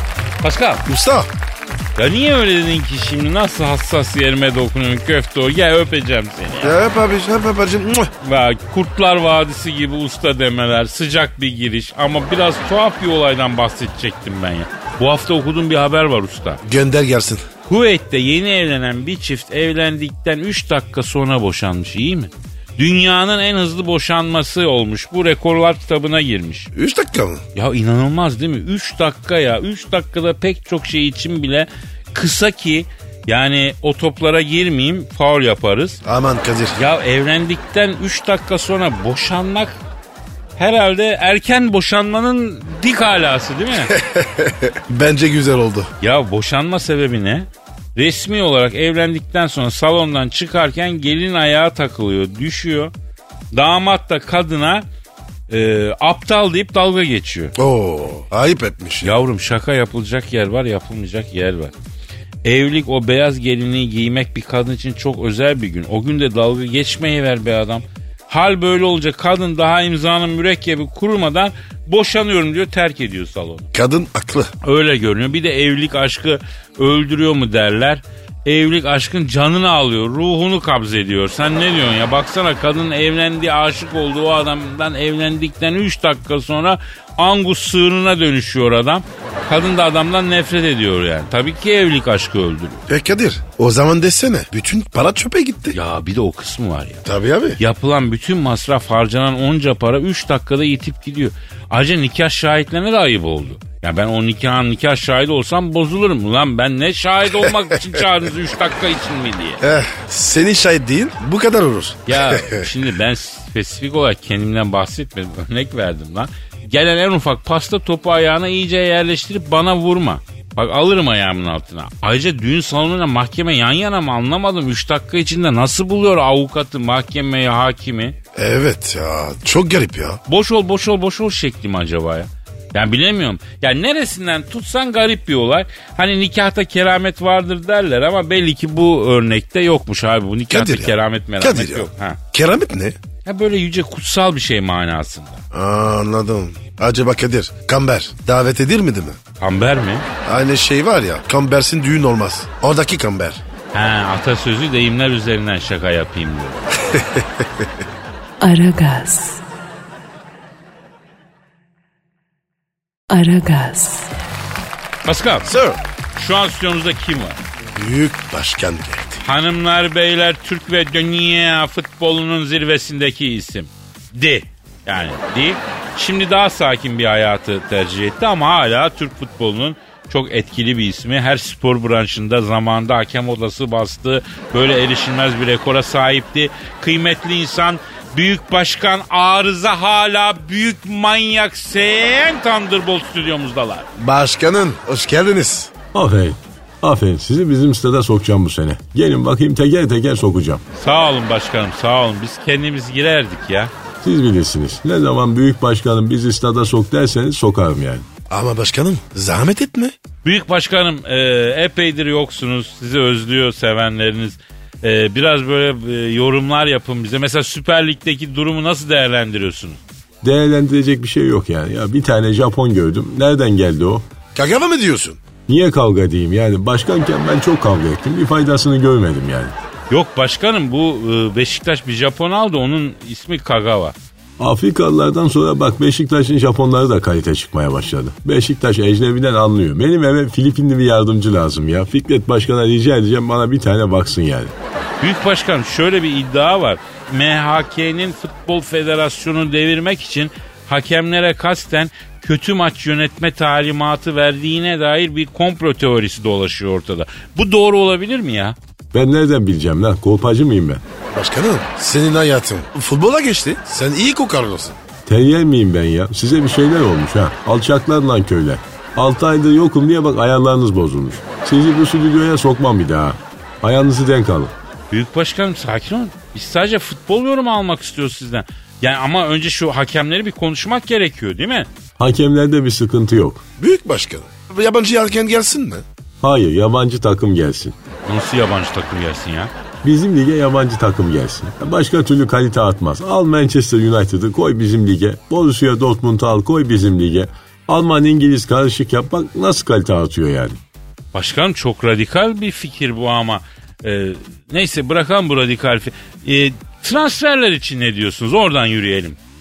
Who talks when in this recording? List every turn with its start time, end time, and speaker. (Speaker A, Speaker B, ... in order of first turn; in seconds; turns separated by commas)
Speaker A: 0.4-0.8, Speaker B: 0.8-1.3, Speaker A: 1.9-6.7, Speaker B: 6.6-8.1, Speaker A: 8.2-16.6, Speaker B: 16.6-17.4, Speaker A: 17.6-26.7, Speaker B: 26.7-27.4, Speaker A: 27.5-36.0, Speaker B: 36.0-36.8, Speaker A: 36.8-39.8, Speaker A: 40.6-43.9, Speaker B: 43.9-45.9, Speaker A: 46.0-52.9, Speaker A: 53.5-54.8, Speaker A: 55.5-57.5, Speaker B: 57.5-59.1, Speaker A: 59.0-61.7, Speaker A: 62.4-73.7, Speaker B: 73.7-74.5, Speaker A: 74.6-92.8, Speaker B: 92.9-95.8, Speaker A: 95.7-97.0, Speaker B: 97.0-97.6, Speaker A: 97.6-109.6, Speaker B: 109.6-112.7, Speaker A: 112.1-128.2, Speaker B: 128.3-130.2, Speaker A: 130.3-142.2, Speaker B: 140.5-143.0, Speaker A: 143.2-145.4, Speaker B: 145.5-149.2, Speaker A: 149.4-150.1, Speaker B: 150.2-153.4, Speaker A: 153.7-156.7, Speaker B: 156.9-157.7, Speaker C: 158.4-159.4, Speaker C: 163.1-164.1, Speaker A: 165.1-165.5, Speaker B: 165.5-165.8, Speaker A: 166.2-167.4, Speaker B: 167.7-169.2, Speaker A: 169.2-193.9, Speaker B: 194.0-195.7, Speaker D: 195.9-200.6, Speaker A: 200.8-203.7, Speaker D: 204.0-208.1, Speaker B: 208.3-209.9, Speaker A: 210.2-219.8, Speaker D: 220.2-224.1, Speaker B: 224.3-225.2, Speaker D: 225.5-229.6, Speaker A: 229.9-233.9, Speaker D: 234.4-244.5, Speaker A: 245.0-258.6, Speaker D: 258.9-260.8, Speaker B: 261.1-264.8, Speaker D: 265.1-274.5, Speaker A: 274.9-281.7, Speaker D: 282.0-283.4, Speaker B: 283.6-285.8, Speaker D: 286.2-287.7, Speaker A: 288.1-289.5, Speaker D: 289.8-300.6, Speaker A: 301.1-309.2